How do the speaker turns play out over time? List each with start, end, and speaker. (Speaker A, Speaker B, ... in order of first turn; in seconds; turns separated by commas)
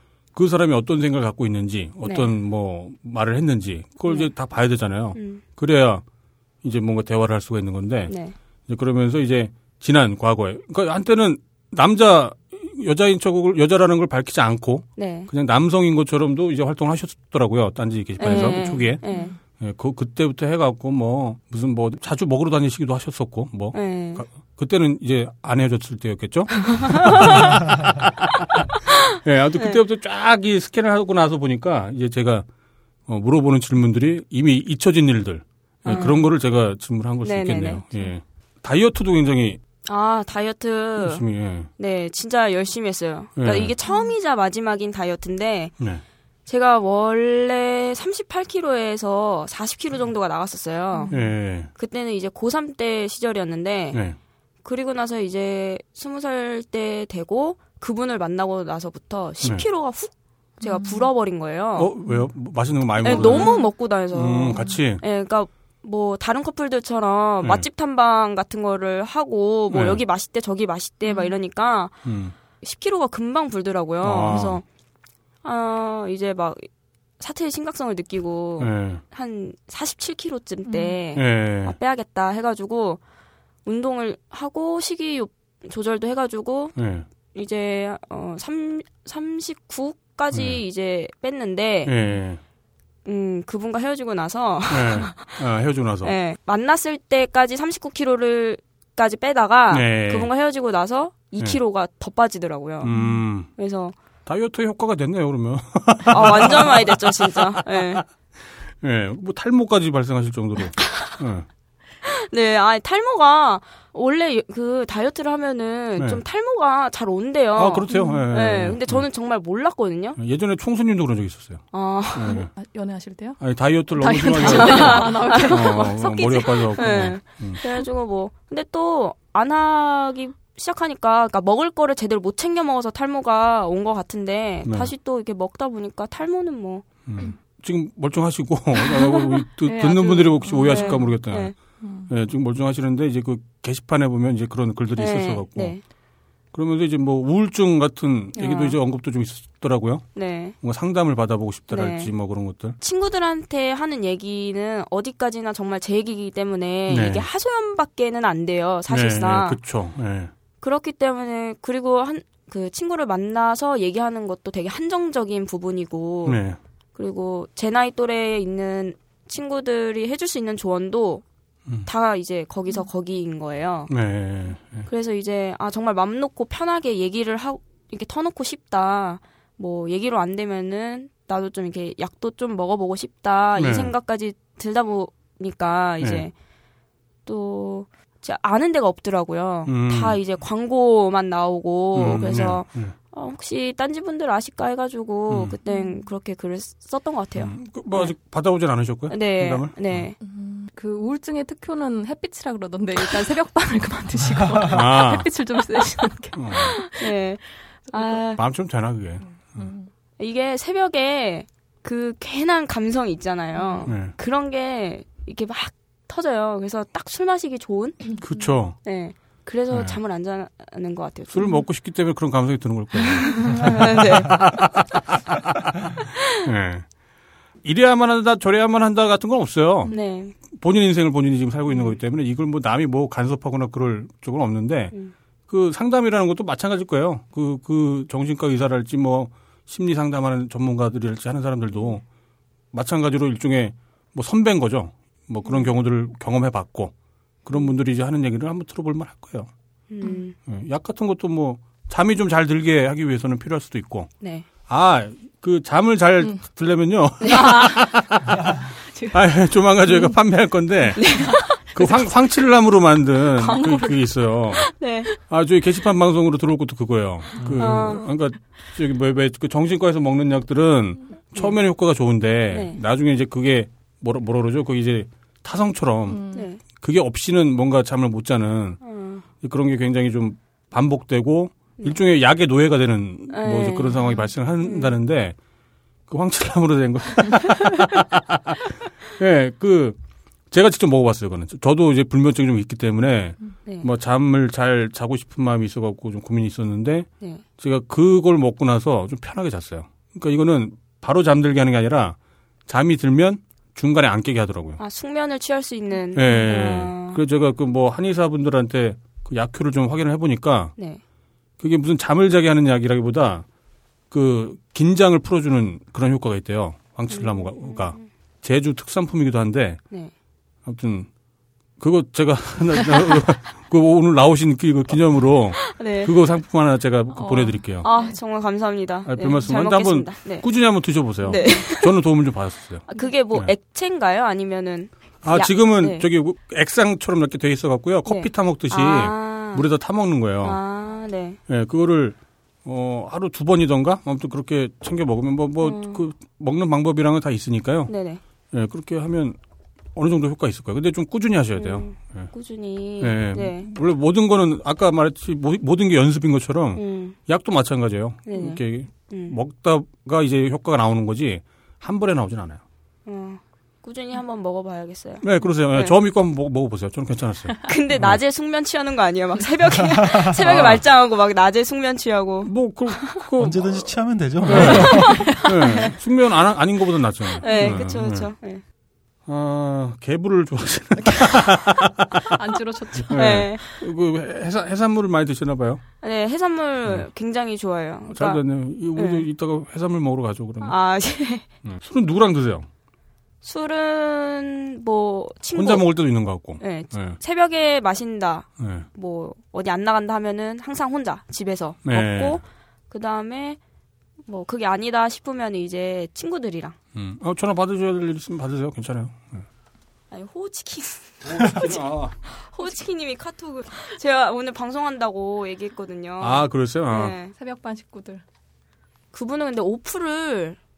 Speaker A: 0.3-6.0, Speaker B: 2.0-2.3, Speaker B: 4.1-4.3, Speaker B: 5.1-5.4, Speaker A: 6.6-8.1, Speaker B: 8.1-8.3, Speaker A: 8.7-27.9, Speaker B: 15.0-15.3, Speaker B: 18.2-19.4, Speaker C: 18.2-19.4, Speaker B: 23.7-24.2, Speaker B: 26.5-27.8, Speaker B: 28.3-29.8, Speaker A: 29.2-32.5, Speaker A: 33.1-39.6, Speaker B: 35.8-36.2, Speaker B: 37.2-37.8, Speaker B: 39.8-41.2, Speaker A: 41.0-41.7, Speaker B: 41.8-45.7, Speaker A: 43.4-43.7, Speaker C: 43.9-44.1, Speaker B: 46.5-54.0, Speaker C: 50.9-51.2, Speaker A: 51.1-51.7, Speaker B: 54.6-61.9, Speaker C: 60.6-61.1, Speaker A: 61.8-63.6, Speaker B: 63.0-72.0, Speaker C: 63.0-63.7, Speaker A: 64.1-65.0, Speaker A: 69.7-70.0, Speaker C: 71.0-71.3, Speaker A: 72.0-72.3, Speaker B: 72.6-74.6, Speaker A: 74.0-74.6, Speaker B: 75.4-76.7, Speaker B: 77.2-83.0, Speaker A: 78.6-79.0, Speaker C: 80.6-81.0, Speaker A: 81.1-81.7, Speaker B: 83.6-91.9, Speaker A: 86.8-87.1, Speaker A: 90.3-90.6, Speaker A: 91.8-92.4, Speaker B: 93.0-95.4, Speaker A: 94.7-96.1, Speaker B: 96.0-102.9, Speaker A: 99.7-100.3, Speaker A: 102.8-103.5, Speaker C: 102.8-103.2, Speaker B: 103.5-103.9, Speaker A: 104.2-108.0, Speaker B: 106.1-108.0, Speaker A: 108.8-111.5, Speaker B: 110.8-111.2, Speaker B: 112.0-120.2, Speaker A: 116.0-116.2, Speaker A: 117.5-119.0, Speaker C: 117.9-118.3, Speaker A: 120.2-122.5, Speaker B: 121.7-122.4, Speaker C: 122.3-123.4, Speaker A: 123.4-127.6, Speaker C: 123.9-127.1, Speaker B: 124.4-126.0, Speaker B: 126.7-136.8, Speaker A: 134.6-134.9, Speaker A: 137.1-141.5, Speaker B: 138.9-139.3, Speaker C: 139.6-141.2, Speaker B: 140.6-141.5, Speaker C: 141.8-142.1, Speaker A: 142.1-145.7, Speaker B: 144.9-145.8, Speaker A: 146.5-152.8, Speaker B: 148.3-148.8, Speaker B: 150.1-150.6, Speaker B: 151.7-152.1, Speaker B: 152.8-159.6, Speaker A: 156.9-157.2, Speaker A: 158.9-160.3, Speaker B: 160.6-166.4, Speaker A: 166.2-166.6, Speaker B: 166.9-171.2, Speaker B: 171.8-173.9, Speaker A: 173.9-174.9, Speaker B: 174.9-186.3, Speaker A: 183.6-183.9, Speaker A: 186.0-186.2, Speaker B: 187.2-198.1, Speaker A: 189.7-190.2, Speaker A: 191.9-192.9, Speaker A: 195.3-195.6, Speaker C: 195.6-196.1, Speaker A: 197.4-200.1, Speaker B: 199.1-200.2, Speaker C: 200.2-207.2, Speaker D: 204.2-204.8, Speaker A: 204.7-205.3, Speaker A: 206.3-206.7, Speaker B: 206.7-208.4, Speaker C: 207.9-208.2, Speaker A: 208.4-209.7, Speaker C: 209.2-209.9, Speaker B: 210.2-221.6, Speaker C: 213.5-213.9, Speaker A: 213.9-214.2, Speaker A: 218.2-218.8, Speaker A: 219.7-220.0, Speaker A: 221.3-225.0, Speaker B: 222.9-224.6, Speaker A: 226.4-226.9, Speaker A: 227.6-234.9, Speaker B: 229.9-230.4, Speaker A: 235.5-242.0, Speaker A: 242.7-246.9, Speaker B: 245.4-245.7, Speaker A: 247.4-249.5, Speaker B: 249.9-250.4, Speaker A: 250.4-254.1, Speaker B: 254.2-254.4, Speaker A: 254.7-258.6, Speaker B: 257.2-257.8, Speaker C: 257.3-259.2, Speaker A: 259.1-264.6, Speaker C: 259.9-260.1, Speaker B: 260.9-261.8, Speaker C: 261.0-262.1, Speaker C: 263.4-264.0, Speaker B: 264.6-265.1, Speaker A: 265.2-278.8, Speaker D: 267.4-267.8, Speaker B: 267.6-268.1, Speaker B: 272.5-272.8, Speaker C: 276.1-276.5, Speaker B: 276.3-276.6, Speaker B: 278.8-279.2, Speaker A: 279.4-285.4, Speaker B: 283.3-284.1, Speaker B: 284.6-285.0, Speaker A: 286.1-288.6, Speaker A: 289.1-289.9, Speaker A: 290.5-302.1, Speaker B: 293.6-293.9, Speaker A: 302.7-304.8, Speaker B: 304.8-307.2, Speaker A: 306.1-310.7, Speaker A: 311.6-313.4, Speaker A: 314.1-319.8, Speaker B: 317.1-318.0, Speaker A: 320.6-321.1, Speaker A: 321.8-327.8, Speaker B: 325.6-326.1, Speaker C: 327.1-328.2, Speaker B: 327.8-330.5, Speaker A: 329.0-333.5, Speaker B: 331.2-331.9, Speaker B: 332.9-336.1, Speaker A: 335.2-340.6, Speaker B: 338.1-339.6, Speaker B: 340.4-341.4, Speaker A: 341.5-347.9, Speaker B: 345.6-346.0, Speaker B: 347.9-348.2, Speaker A: 348.5-349.4, Speaker A: 349.9-352.3, Speaker B: 351.6-353.7, Speaker A: 353.0-362.6, Speaker B: 356.8-357.2, Speaker B: 358.2-359.4, Speaker B: 363.1-365.9, Speaker A: 365.2-368.2, Speaker B: 367.6-373.2, Speaker D: 369.9-370.4, Speaker A: 370.4-370.8, Speaker A: 372.4-373.9, Speaker D: 373.4-375.1, Speaker A: 374.4-378.3, Speaker B: 374.5-375.9, Speaker C: 374.6-375.8, Speaker B: 377.4-378.6, Speaker C: 377.4-377.8, Speaker A: 379.3-382.2, Speaker C: 381.0-383.7, Speaker A: 383.1-385.8, Speaker B: 383.1-383.6, Speaker B: 386.0-388.4, Speaker A: 388.1-390.7, Speaker B: 388.9-389.2, Speaker B: 390.6-391.5, Speaker A: 391.6-392.7, Speaker B: 393.4-395.9, Speaker A: 395.5-397.2, Speaker B: 396.6-403.6, Speaker A: 398.6-398.9, Speaker A: 401.8-402.4, Speaker B: 404.2-406.7, Speaker A: 406.9-409.4, Speaker B: 410.1-417.3, Speaker A: 411.2-412.2, Speaker A: 416.2-417.1, Speaker C: 417.3-418.2, Speaker B: 419.1-420.6